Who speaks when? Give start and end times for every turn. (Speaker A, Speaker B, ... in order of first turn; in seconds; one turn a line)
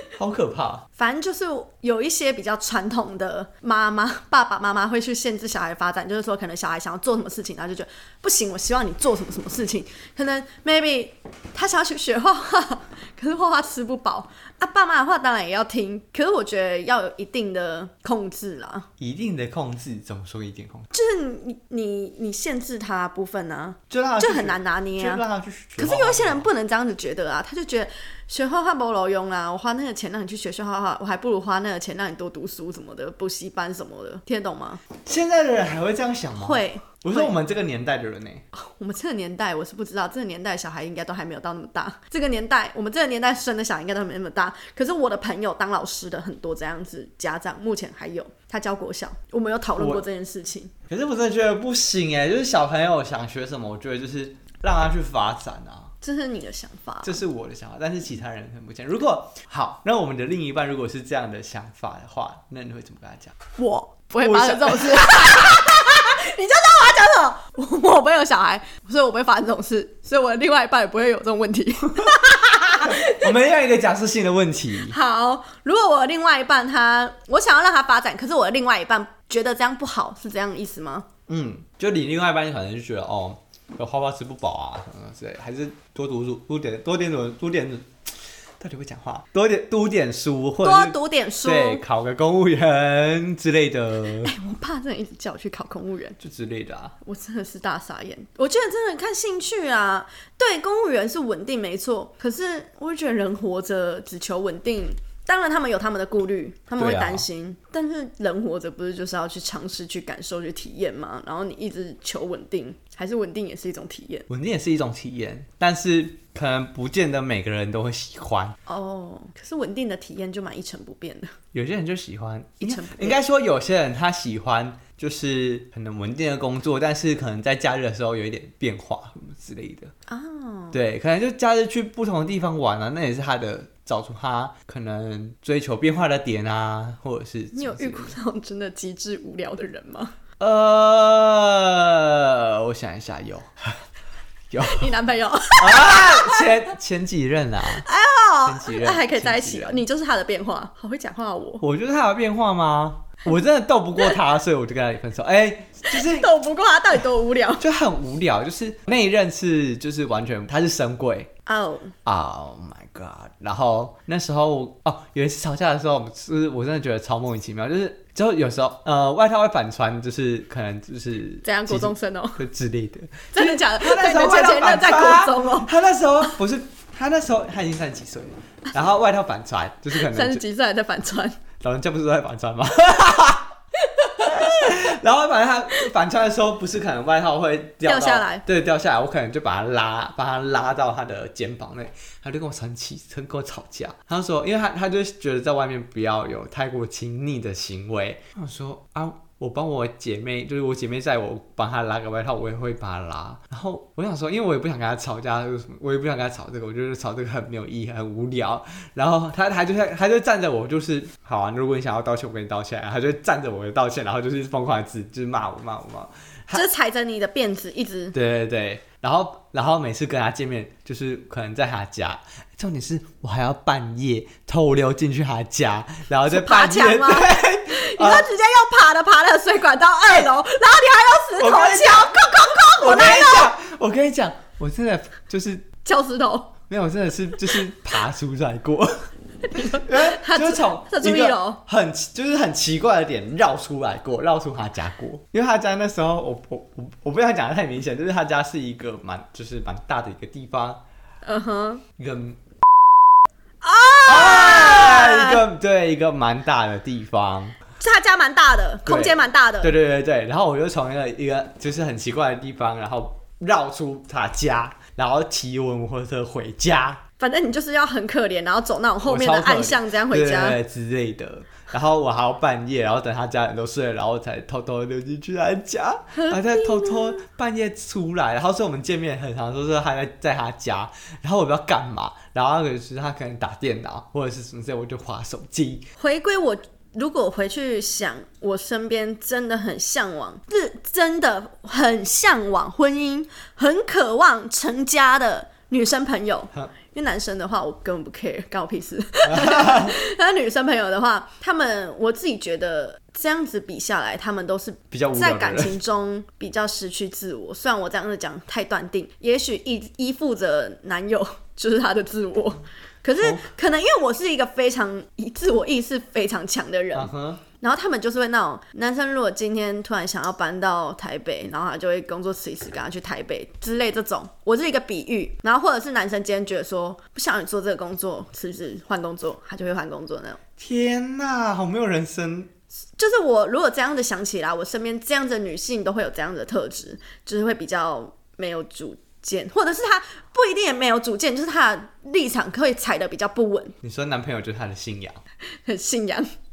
Speaker A: 0.1-0.9
Speaker B: 1.0-18.9
Speaker A: 19.0-20.9
Speaker B: 20.9-25.2
Speaker A: 23.9-26.5
Speaker B: 25.8-34.8
Speaker A: 35.0-38.4
Speaker B: 36.4-37.4
Speaker B: 38.5-50.7
Speaker A: 49.8-50.0
Speaker A: 50.9-55.9
Speaker B: 56.0-57.2
Speaker A: 57.0-63.4
Speaker B: 63.6-73.3
Speaker A: 64.2-65.7
Speaker A: 72.8-75.0
Speaker B: 74.8-81.1
Speaker A: 81.3-87.9
Speaker A: 88.6-94.3
Speaker B: 90.6-91.8
Speaker B: 94.2-96.2
Speaker A: 96.2-97.0
Speaker B: 97.0-114.3
Speaker A: 106.8-107.2
Speaker A: 114.3-118.6
Speaker B: 118.7-121.3
Speaker A: 121.5-129.9
Speaker B: 122.6-123.2
Speaker B: 130.1-130.8
Speaker A: 130.7-138.2
Speaker B: 137.5-140.2
Speaker A: 140.4-143.8
Speaker A: 144.5-144.9
Speaker B: 144.6-146.5
Speaker A: 145.6-147.9
Speaker B: 147.8-151.6
Speaker A: 148.4-149.8
Speaker A: 151.6-156.3
Speaker B: 155.9-157.6
Speaker A: 157.6-161.3
Speaker B: 161.5-161.9
Speaker A: 162.1-180.4
Speaker B: 171.4-172.4
Speaker B: 173.3-175.7
Speaker B: 179.9-181.4
Speaker A: 181.6-183.5
Speaker B: 184.0-184.8
Speaker A: 184.2-216.6
Speaker B: 187.8-188.4
Speaker B: 216.5-218.2
Speaker A: 218.1-228.3
Speaker B: 226.2-233.5
Speaker A: 231.4-235.7
Speaker B: 235.8-236.5
Speaker A: 236.7-250.8
Speaker B: 239.4-241.6
Speaker B: 251.2-251.8
Speaker A: 252.0-252.4
Speaker B: 253.6-255.4
Speaker A: 254.1-257.6
Speaker B: 257.8-259.7
Speaker A: 258.9-267.0
Speaker B: 267.2-270.6
Speaker A: 269.0-285.9
Speaker B: 276.1-277.2
Speaker B: 286.0-330.4
Speaker A: 299.3-300.0
Speaker A: 304.9-305.8
Speaker A: 313.2-313.5
Speaker A: 316.9-317.4
Speaker A: 330.6-332.5
Speaker B: 333.0-343.8
Speaker A: 343.8-345.2
Speaker B: 345.6-346.3